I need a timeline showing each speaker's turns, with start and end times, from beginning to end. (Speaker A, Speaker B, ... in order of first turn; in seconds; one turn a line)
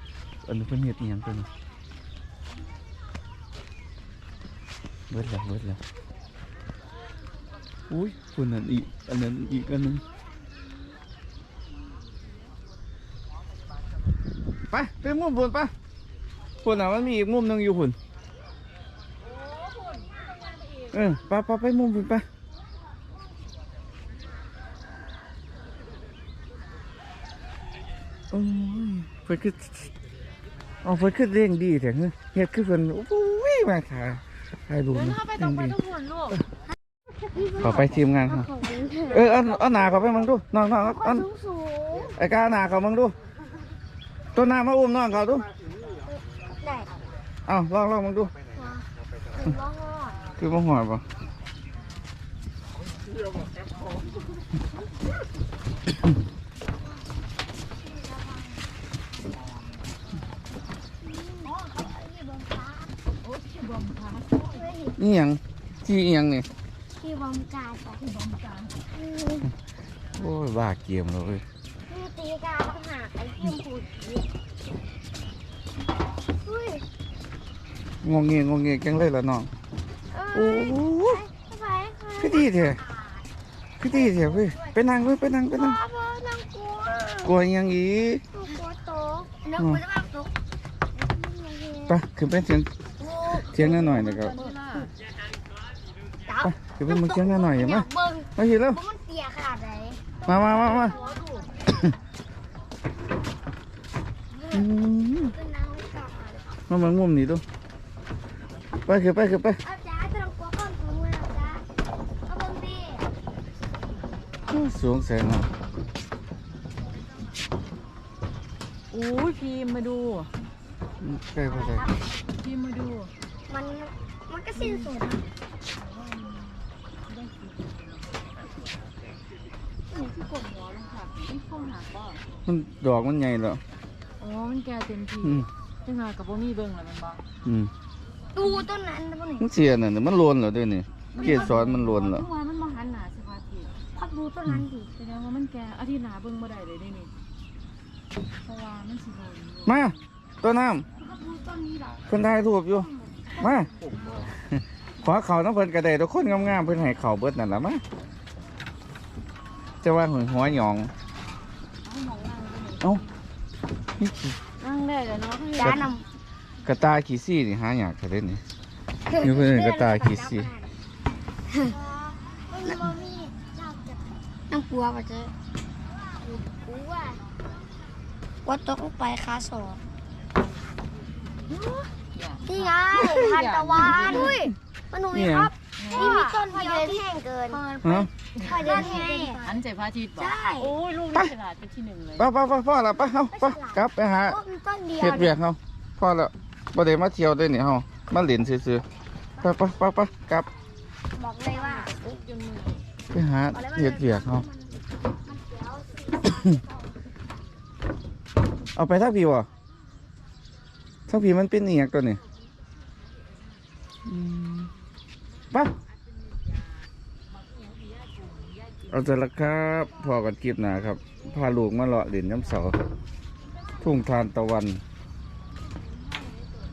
Speaker A: 0.4-1.5
Speaker A: 5.1-5.8
Speaker A: 7.9-10.0
Speaker B: 9.7-10.3
Speaker A: 14.7-15.7
Speaker A: 16.6-17.9
Speaker C: 19.6-20.8
Speaker A: 20.9-22.2
Speaker A: 28.3-29.9
Speaker A: 30.8-35.8
Speaker C: 34.9-36.4
Speaker B: 37.3-39.3
Speaker A: 37.6-38.5
Speaker A: 39.1-41.3
Speaker B: 40.8-42.1
Speaker A: 42.1-43.1
Speaker A: 44.3-45.5
Speaker B: 46.1-46.9
Speaker A: 47.5-48.3
Speaker B: 48.5-50.3
Speaker A: 50.4-51.0
Speaker B: 57.9-58.6
Speaker B: 61.0-62.9
Speaker C: 63.2-64.6
Speaker B: 64.3-65.0
Speaker A: 65.0-66.5
Speaker B: 67.0-68.0
Speaker C: 68.0-68.8
Speaker B: 68.9-69.5
Speaker A: 70.2-71.4
Speaker B: 71.9-74.2
Speaker B: 76.3-76.8
Speaker A: 78.0-79.5
Speaker B: 80.1-83.2
Speaker A: 80.3-81.2
Speaker A: 82.2-82.8
Speaker A: 83.8-85.8
Speaker B: 83.9-84.8
Speaker B: 85.5-87.3
Speaker A: 87.2-88.2
Speaker B: 88.3-90.3
Speaker A: 89.5-89.8
Speaker B: 91.0-92.0
Speaker A: 91.9-92.7
Speaker B: 93.0-93.9
Speaker A: 93.4-94.4
Speaker C: 93.6-94.9
Speaker B: 96.2-100.2
Speaker A: 96.4-98.8
Speaker A: 100.2-101.0
Speaker C: 100.5-101.5
Speaker B: 104.3-106.6
Speaker A: 104.5-105.3
Speaker A: 106.7-107.4
Speaker A: 108.9-109.6
Speaker B: 109.6-111.7
Speaker B: 112.3-113.1
Speaker A: 114.5-115.5
Speaker C: 118.9-120.3
Speaker A: 121.0-121.8
Speaker B: 121.5-122.0
Speaker C: 122.4-123.1
Speaker B: 123.5-125.2
Speaker C: 124.5-124.9
Speaker C: 125.8-127.8
Speaker C: 129.9-132.2
Speaker A: 132.4-133.6
Speaker C: 134.2-137.2
Speaker A: 135.2-135.5
Speaker A: 137.4-137.7
Speaker B: 138.3-139.5
Speaker A: 139.4-142.2
Speaker C: 141.1-143.8
Speaker B: 141.2-141.5
Speaker B: 143.9-144.9
Speaker C: 145.0-147.1
Speaker C: 148.4-150.0
Speaker A: 149.6-150.8
Speaker C: 151.0-152.1
Speaker A: 152.1-153.7
Speaker A: 154.3-157.8
Speaker A: 159.8-160.9
Speaker C: 161.8-163.0
Speaker A: 164.0-164.3
Speaker C: 164.6-165.9
Speaker B: 165.6-166.1
Speaker A: 165.6-165.9
Speaker A: 166.6-168.4
Speaker B: 169.1-170.7
Speaker A: 169.2-170.5
Speaker B: 171.5-175.3
Speaker B: 176.7-177.2
Speaker B: 178.4-179.8
Speaker C: 181.5-184.5
Speaker B: 182.4-187.7
Speaker A: 183.9-184.5
Speaker A: 185.1-185.5
Speaker C: 185.8-187.0
Speaker C: 187.5-192.2
Speaker A: 187.8-188.1
Speaker B: 188.4-189.6
Speaker B: 190.2-190.7
Speaker A: 192.2-194.4
Speaker B: 193.3-195.4
Speaker A: 194.9-198.8
Speaker A: 199.4-200.5
Speaker B: 201.1-202.1
Speaker C: 201.4-202.8
Speaker A: 203.1-204.4
Speaker B: 203.5-204.7
Speaker B: 205.2-206.9
Speaker A: 208.8-209.5
Speaker A: 211.1-212.2
Speaker A: 214.1-214.7
Speaker A: 218.9-222.8
Speaker A: 223.8-224.8